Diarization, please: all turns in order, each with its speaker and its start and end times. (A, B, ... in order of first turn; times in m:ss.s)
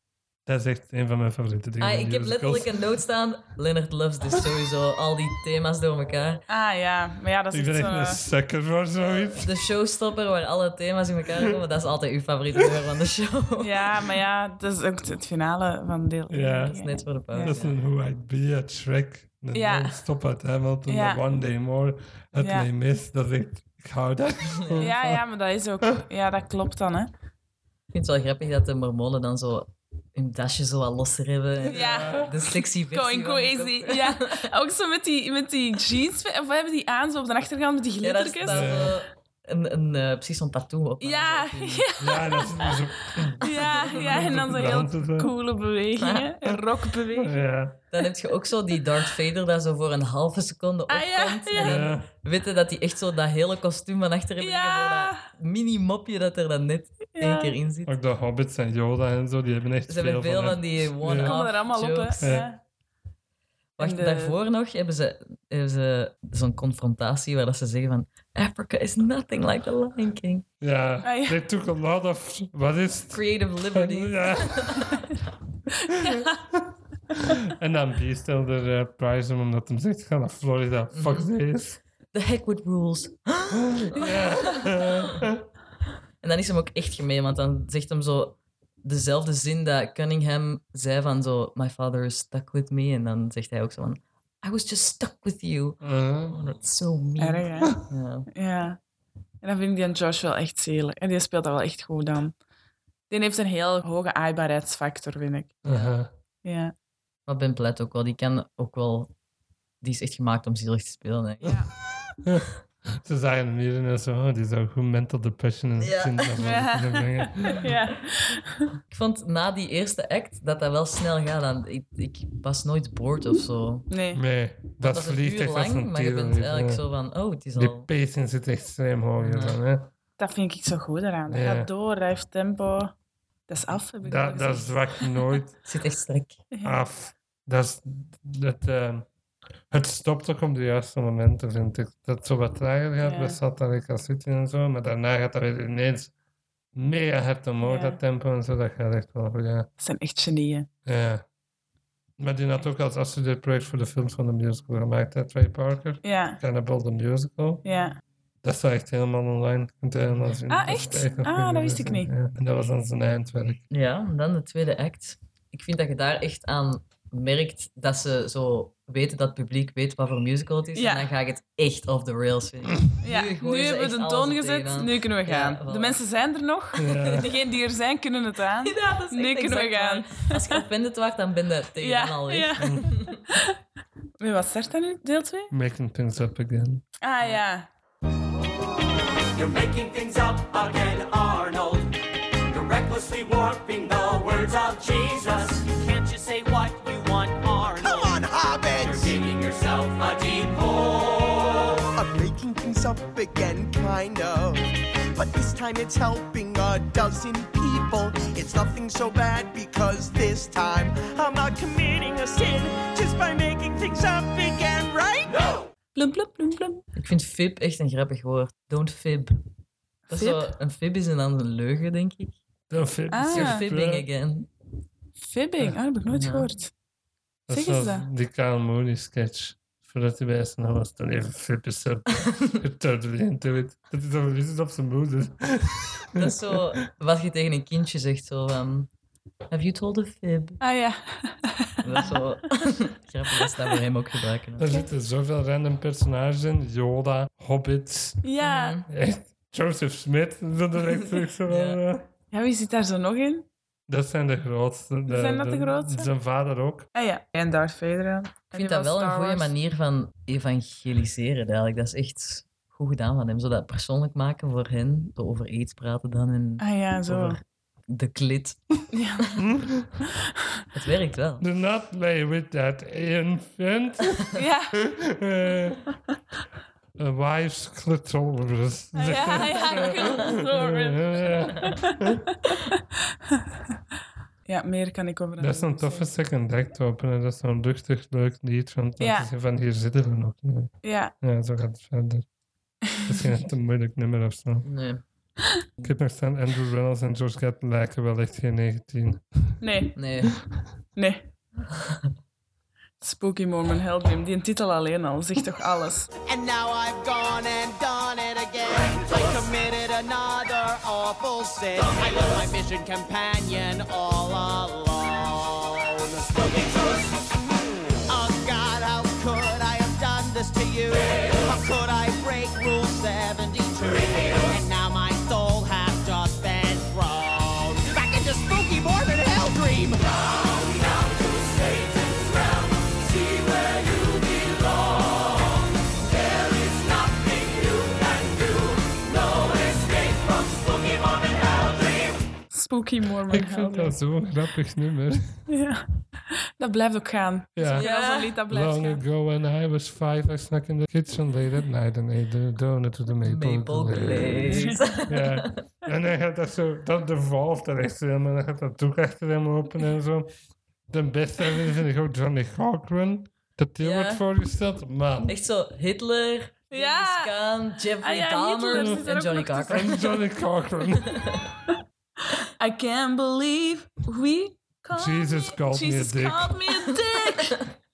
0:00.4-0:02.7 A
0:01.8-0:06.4 B
0:06.5-0:08.2 C
0:07.5-0:09.5 A
0:09.3-0:13.8 B
0:13.6-0:17.6 C
0:16.3-0:16.8 A
0:16.7-0:17.7 B
0:17.4-0:25.2 A
0:19.5-0:20.0 C
0:20.9-0:21.2 C
0:22.4-0:22.7 C
0:24.4-0:24.9 B
0:24.8-0:27.1 C
0:27.9-0:34.4 B
0:31.7-0:32.4 A
0:31.7-0:38.9 C
0:38.0-0:41.9 B
0:38.4-0:39.0 A
0:41.0-0:42.9 C
0:42.0-0:45.3 A
0:43.4-0:44.8 B
0:43.4-0:47.4 C
0:46.0-0:46.3 B
0:47.1-0:47.8 A
0:47.9-0:58.0 B
0:50.9-0:51.9 C
0:51.6-0:52.1 A
0:54.4-0:55.3 C
0:57.2-0:57.6 C
0:57.9-1:01.4 A
0:59.9-1:02.4 B
1:01.2-1:02.6 C
1:02.2-1:02.5 A
1:03.8-1:10.4 B
1:03.8-1:04.4 C
1:10.6-1:15.0 A
1:11.0-1:11.4 C
1:13.1-1:15.2 B
1:15.9-1:21.8 A
1:20.9-1:21.3 B
1:22.1-1:25.2 B
1:23.5-1:25.4 A
1:26.2-1:38.3 B
1:35.8-1:36.4 A
1:37.2-1:37.8 C
1:38.3-1:38.8 C
1:39.4-1:42.3 C
1:43.1-1:45.6 C
1:45.6-1:46.1 A
1:45.7-1:45.9 B
1:46.4-1:46.7 C
1:47.2-1:49.1 B
1:49.8-1:51.6 B
1:51.4-1:51.7 C
1:52.2-1:57.6 A
1:55.8-1:56.4 B
1:56.4-1:58.7 C
1:58.9-2:03.9 B
2:03.9-2:04.2 C
2:04.1-2:06.8 A
2:04.8-2:07.9 B
2:07.6-2:09.9 A
2:09.2-2:09.6 B
2:10.2-2:12.9 C
2:11.3-2:11.7 A
2:13.5-2:15.2 C
2:14.0-2:15.6 A
2:15.6-2:16.4 B
2:16.5-2:16.8 C
2:16.6-2:19.1 A
2:19.7-2:26.1 A
2:23.0-2:23.4 C
2:26.7-2:29.7 A
2:27.6-2:28.0 C
2:29.8-2:30.7 C
2:30.9-2:31.2 A
2:32.2-2:37.6 A
2:36.0-2:36.4 C
2:37.6-2:38.0 C
2:38.4-2:43.6 A
2:40.5-2:42.1 C
2:43.7-2:56.0 B
2:50.7-2:51.1 C
2:53.0-3:00.6 C
2:56.8-2:57.3 A
2:56.9-2:57.3 B
2:58.6-3:03.2 B
3:01.8-3:03.6 C
3:02.6-3:02.8 A
3:04.2-3:05.5 C
3:05.5-3:06.8 A
3:07.0-3:07.7 C
3:09.3-3:18.2 D
3:17.8-3:19.1 E
3:18.7-3:21.8 D
3:21.9-3:35.4 E
3:35.9-3:36.8 C
3:36.9-3:39.4 B
3:40.1-3:40.6 C
3:40.1-3:42.4 B
3:42.7-3:44.1 A
3:43.1-3:43.6 C
3:43.3-3:44.5 B
3:45.2-3:46.7 C
3:46.1-3:46.5 B
3:47.5-3:56.6 A
3:47.5-3:48.0 C
3:52.2-3:52.6 B
3:56.2-3:58.9 B
3:59.5-4:00.6 B
4:00.6-4:02.2 C
4:01.8-4:04.7 B
4:04.6-4:08.2 A
4:08.2-4:08.8 C
4:08.4-4:08.9 B
4:08.9-4:12.1 A
4:11.4-4:11.8 B
4:12.3-4:13.5 C
4:13.9-4:16.9 A
4:15.1-4:16.1 C
4:16.9-4:19.5 C
4:18.5-4:29.4 B
4:26.6-4:27.4 C
4:28.9-4:29.4 C
4:29.4-4:29.9 A
4:30.7-4:31.4 B
4:31.4-4:35.9 A
4:34.4-4:34.8 C
4:37.0-4:42.2 A
4:38.9-4:42.8 C
4:44.4-4:46.1 C
4:45.4-4:52.3 A
4:49.0-4:49.3 C
4:50.8-4:51.1 C
4:53.0-4:54.6 A
4:54.6-4:55.0 B
4:55.8-4:59.6 A
4:59.6-5:00.0 C
4:59.9-5:00.4 B
5:01.0-5:01.2 C
5:01.8-5:02.1 B
5:03.0-5:06.1 C
5:06.2-5:17.2 D
5:18.1-5:35.4 D
5:36.0-5:42.2 D
5:42.5-5:44.0 C
5:43.3-5:45.4 A
5:45.5-5:49.0 C
5:47.6-5:47.9 A
5:47.6-5:48.4 B
5:48.5-5:54.6 A
5:53.2-5:55.6 B
5:54.5-5:54.8 C
5:55.1-6:00.3 A
6:00.9-6:05.3 A
6:03.8-6:04.2 B
6:05.2-6:10.0 B
6:06.7-6:07.3 C
6:08.0-6:09.9 C
6:08.7-6:09.0 A
6:09.7-6:11.2 A
6:11.2-6:11.4 B
6:12.4-6:17.6 C
6:14.9-6:16.6 A
6:17.2-6:17.6 B